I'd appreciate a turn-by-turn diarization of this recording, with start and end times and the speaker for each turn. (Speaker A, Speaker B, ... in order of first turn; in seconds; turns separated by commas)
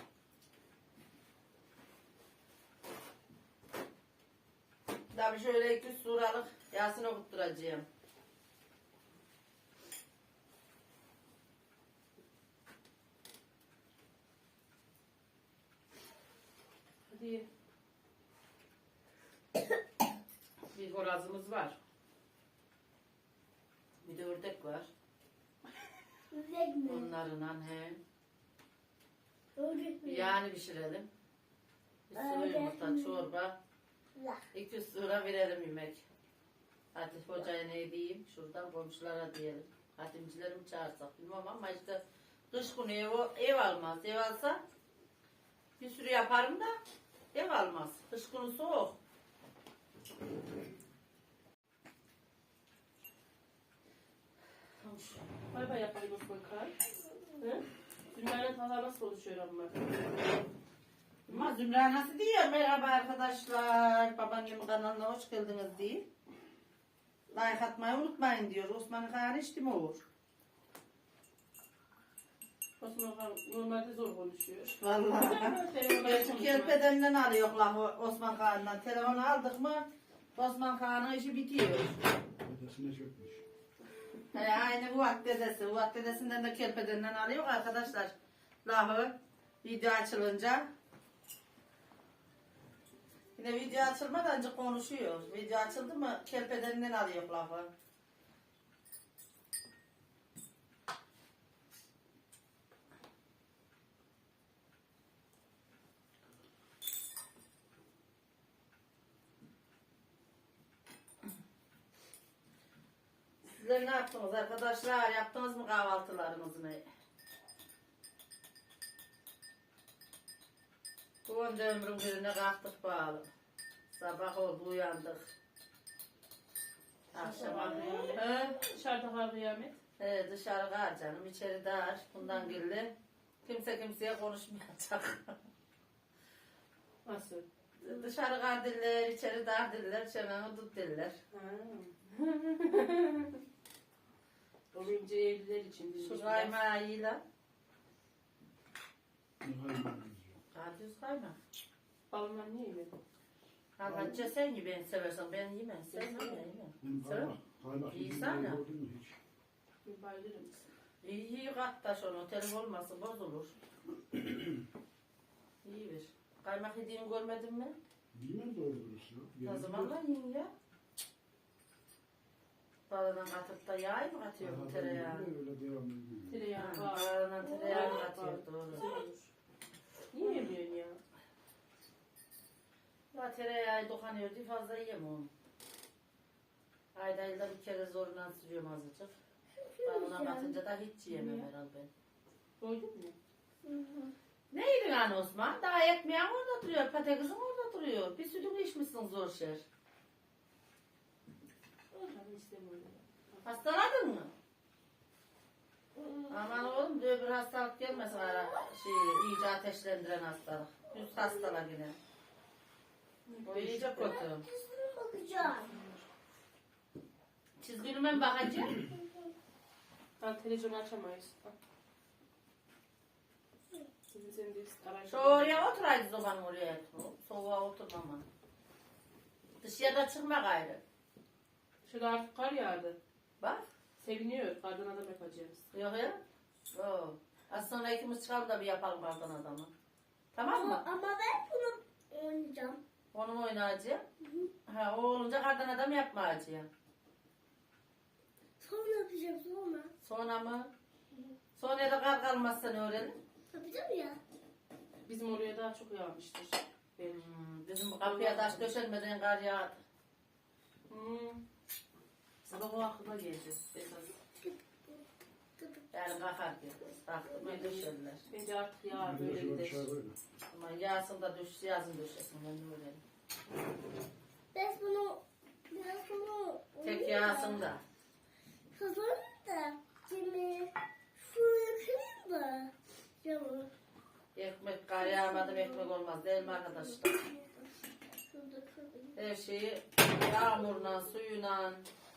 Speaker A: 5.1-7.8, Speaker B: 17.1-17.5, Speaker A: 20.7-21.8, Speaker A: 24.0-24.9, Speaker C: 26.3-27.1, Speaker A: 26.8-28.0, Speaker C: 29.6-30.4, Speaker A: 30.0-31.1, Speaker A: 32.1-33.5, Speaker C: 32.1-33.2, Speaker C: 34.1-34.5, Speaker A: 34.5-36.1, Speaker A: 36.9-44.6, Speaker A: 45.8-46.8, Speaker A: 47.3-49.0, Speaker A: 54.8-55.3, Speaker B: 55.5-56.7, Speaker B: 57.3-59.9, Speaker B: 61.3-61.5, Speaker A: 61.3-66.0, Speaker A: 67.3-70.0, Speaker B: 72.8-76.8, Speaker A: 74.8-82.0, Speaker D: 82.4-83.4, Speaker A: 84.3-88.1, Speaker A: 88.6-90.7, Speaker A: 93.3-97.7, Speaker A: 113.5-116.8, Speaker A: 121.2-123.3, Speaker A: 123.9-125.3, Speaker A: 127.1-128.6, Speaker B: 127.1-129.8, Speaker C: 127.5-128.0, Speaker A: 130.0-132.9, Speaker A: 133.4-135.4, Speaker B: 137.0-138.0, Speaker A: 137.8-141.2, Speaker B: 141.3-143.4, Speaker B: 144.7-146.6, Speaker A: 146.0-147.2, Speaker D: 149.4-150.4, Speaker A: 150.5-151.4, Speaker B: 152.1-152.9, Speaker A: 153.8-157.3, Speaker D: 153.8-154.2, Speaker B: 155.9-156.4, Speaker D: 156.8-159.2, Speaker A: 157.9-158.6, Speaker B: 159.8-160.6, Speaker A: 161.0-163.5, Speaker D: 164.1-164.4, Speaker A: 165.6-167.8, Speaker D: 168.1-170.0, Speaker A: 169.4-170.5, Speaker A: 172.9-175.3, Speaker D: 174.4-176.4, Speaker B: 176.3-179.3, Speaker A: 176.6-178.8, Speaker B: 180.1-181.0, Speaker A: 183.1-185.3, Speaker A: 186.9-189.1, Speaker C: 189.5-190.6, Speaker A: 189.8-191.9, Speaker B: 191.1-191.5, Speaker B: 192.6-193.1, Speaker C: 193.6-194.1, Speaker A: 194.5-199.6, Speaker B: 201.9-203.4, Speaker A: 203.4-204.3, Speaker C: 205.9-206.6, Speaker A: 206.3-212.0, Speaker C: 211.0-211.3, Speaker B: 213.3-214.2, Speaker A: 213.4-214.4, Speaker C: 214.0-215.7, Speaker B: 215.4-216.0, Speaker A: 217.6-218.8, Speaker C: 218.8-219.3, Speaker B: 220.2-221.5, Speaker B: 224.1-225.7, Speaker A: 225.1-228.2, Speaker A: 229.6-230.8, Speaker B: 231.8-232.9, Speaker A: 233.4-233.6, Speaker B: 234.0-235.7, Speaker A: 235.7-236.2, Speaker A: 236.7-239.7, Speaker A: 240.3-240.8, Speaker C: 240.4-242.8, Speaker A: 243.1-244.0, Speaker C: 244.2-244.5, Speaker A: 244.7-246.7, Speaker C: 248.6-249.9, Speaker A: 250.0-250.7, Speaker A: 251.6-253.2, Speaker C: 253.5-254.2, Speaker B: 255.1-257.2, Speaker A: 257.0-259.8, Speaker B: 258.0-258.7, Speaker B: 260.9-261.4, Speaker B: 262.4-264.1, Speaker A: 265.9-268.2, Speaker B: 267.4-269.9, Speaker D: 268.9-270.2, Speaker A: 270.5-273.0, Speaker C: 274.5-277.7, Speaker A: 276.8-277.8, Speaker C: 278.7-283.7, Speaker A: 284.3-287.2, Speaker C: 285.0-287.6, Speaker C: 288.3-289.2, Speaker A: 289.1-291.9, Speaker C: 290.3-291.0